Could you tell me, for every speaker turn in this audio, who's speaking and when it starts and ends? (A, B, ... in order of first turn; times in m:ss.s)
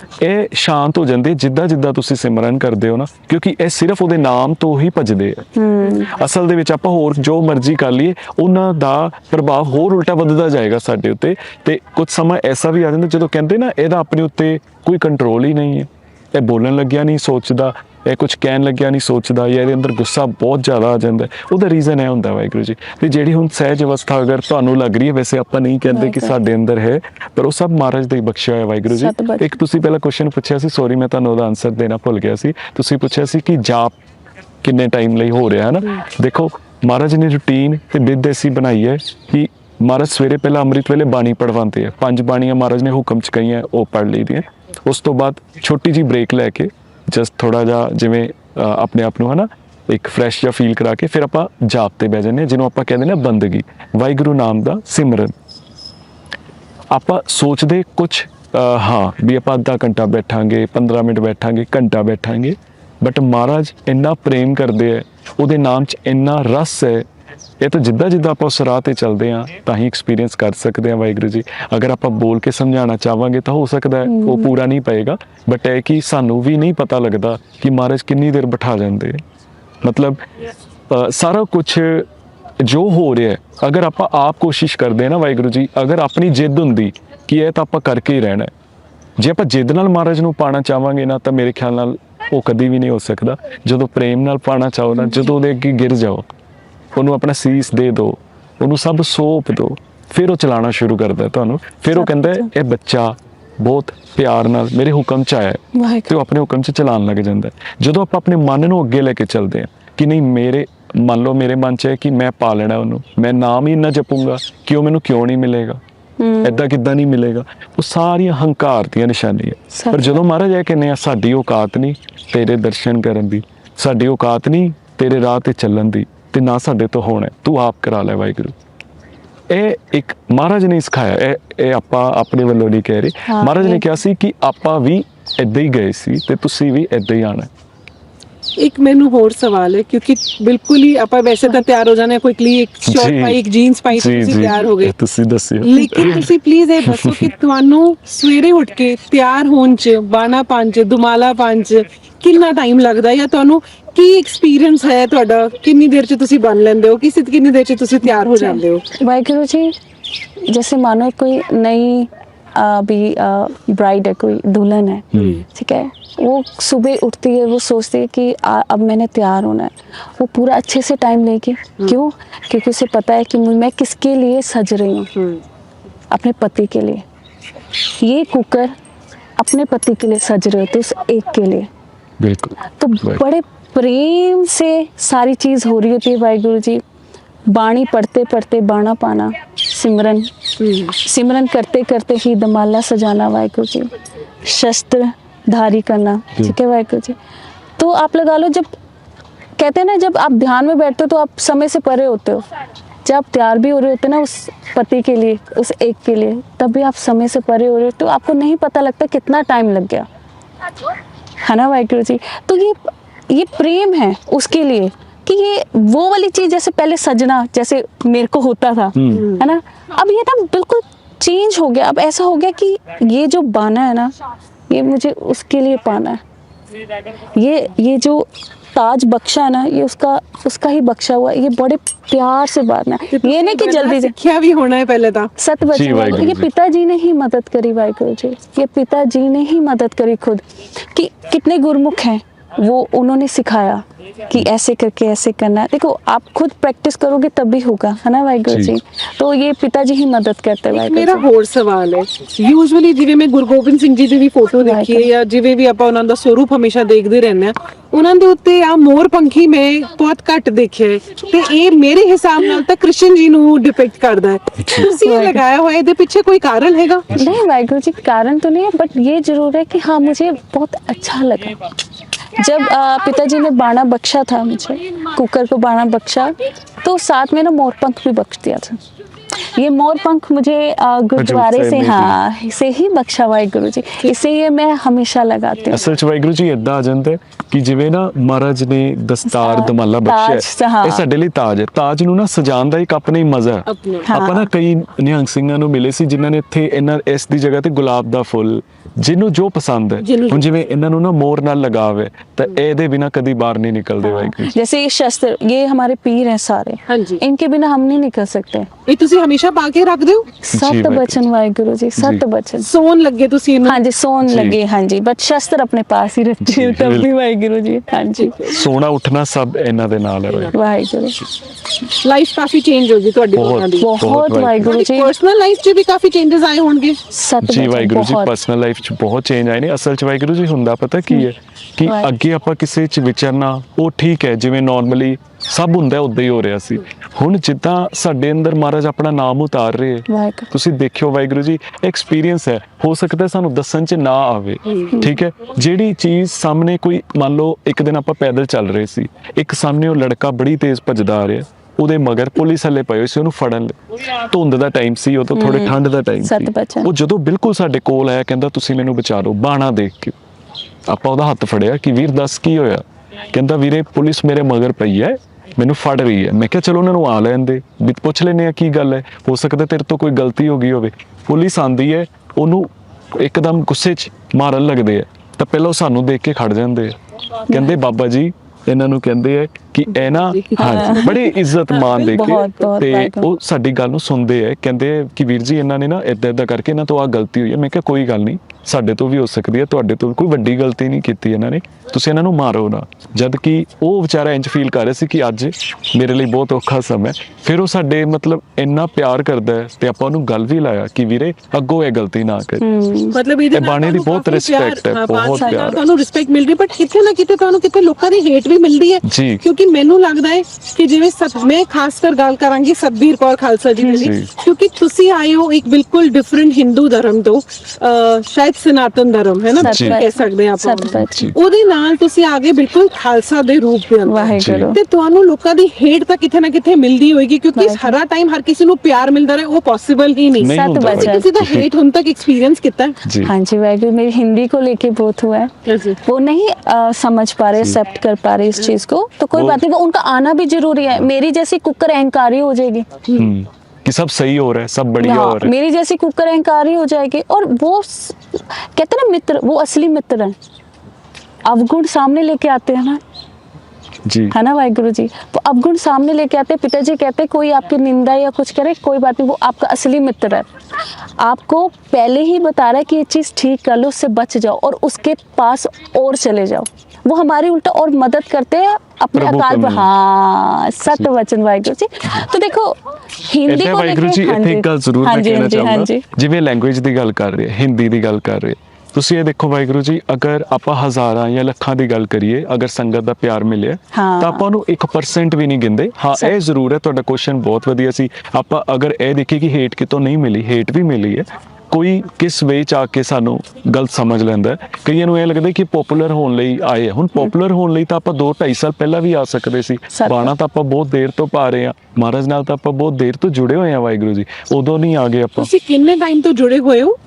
0:00.2-0:33.9 A
0:05.6-0:06.1 B
0:25.9-0:26.3 B
0:28.8-0:29.5 B
0:34.6-0:55.3 A
0:56.9-1:07.1 A
1:07.6-1:19.2 A
1:14.0-1:14.5 B
1:19.8-1:20.2 A
1:20.9-1:22.1 A
1:22.6-1:28.5 A
1:29.2-1:36.3 A
1:35.0-1:35.3 B
1:36.9-1:55.8 A
1:41.9-1:42.5 B
1:45.7-1:46.1 B
1:56.2-1:56.6 B
1:56.4-2:08.5 A
1:59.8-2:00.2 B
2:09.5-2:17.5 A
2:13.3-2:13.8 B
2:18.6-2:24.9 C
2:22.8-2:23.4 A
2:23.9-2:26.2 A
2:25.6-2:38.8 C
2:26.8-2:27.3 A
2:38.1-2:39.7 B
2:40.5-2:55.1 B
2:45.1-2:45.4 A
2:45.2-2:45.4 C
2:55.2-2:55.4 C
2:56.1-2:57.0 B
2:58.0-2:58.7 B
2:59.4-3:01.7 B
3:02.2-3:03.2 A
3:02.7-3:06.8 B
3:07.5-3:13.9 B
3:10.6-3:10.9 C
3:14.4-3:17.2 B
3:17.8-3:18.7 B
3:19.6-3:22.4 B
3:23.0-3:30.1 B
3:31.4-3:44.1 B
3:38.9-3:39.3 A
3:44.7-3:46.2 B
3:47.4-3:54.1 B
3:53.1-3:55.3 C
3:55.4-4:11.2 B
3:55.6-3:56.5 A
4:08.5-4:08.7 A
4:10.7-4:27.2 C
4:14.6-4:15.1 B
4:24.8-4:25.4 B
4:27.1-4:31.6 B
4:32.4-4:38.8 B
4:39.5-4:45.8 B
4:41.2-4:42.2 A
4:45.7-5:04.5 A
4:49.2-4:51.0 B
4:53.7-4:54.1 C
4:54.1-4:54.5 B
5:00.0-5:00.5 C
5:04.0-5:08.7 B
5:06.9-5:07.2 C
5:08.9-5:10.4 C
5:10.4-5:12.7 B
5:10.5-5:11.2 A
5:12.0-5:12.2 A
5:12.6-5:13.8 C
5:13.6-5:18.5 B
5:14.2-5:14.6 A
5:16.4-5:17.1 A
5:18.4-5:20.6 A
5:20.5-5:21.2 B
5:21.9-5:23.9 C
5:23.3-5:24.8 A
5:23.8-5:25.1 B
5:24.6-5:27.0 C
5:27.1-5:28.3 B
5:27.4-6:00.2 A
5:40.1-5:40.5 B
5:55.3-5:56.9 B
6:00.9-6:42.6 A
6:20.1-6:21.2 C
6:20.6-6:23.3 B
6:21.7-6:22.5 C
6:42.6-6:43.2 B
6:43.1-7:13.0 C
6:43.5-6:45.8 A
6:45.3-6:45.8 B
6:49.0-6:49.4 A
6:53.8-6:54.1 B
6:54.0-6:54.3 A
6:59.6-7:00.0 A
6:59.6-7:01.3 B
7:00.9-7:01.3 A
7:04.0-7:04.8 B
7:04.3-7:04.7 A
7:07.5-7:08.0 B
7:10.4-7:11.6 A
7:10.5-7:11.6 B
7:13.0-7:13.3 A
7:13.2-7:15.5 B
7:15.6-7:16.0 C
7:16.0-7:22.8 B
7:19.3-7:19.6 A
7:23.1-7:25.5 A
7:25.0-7:30.3 B
7:31.4-7:33.0 B
7:34.0-7:34.3 A
7:34.3-7:40.5 B
7:41.2-7:56.0 B
7:49.1-7:49.9 A
7:50.8-7:51.1 A
7:53.4-8:25.5 A
8:03.9-8:04.4 B
8:19.9-8:20.3 B
8:25.4-8:27.0 C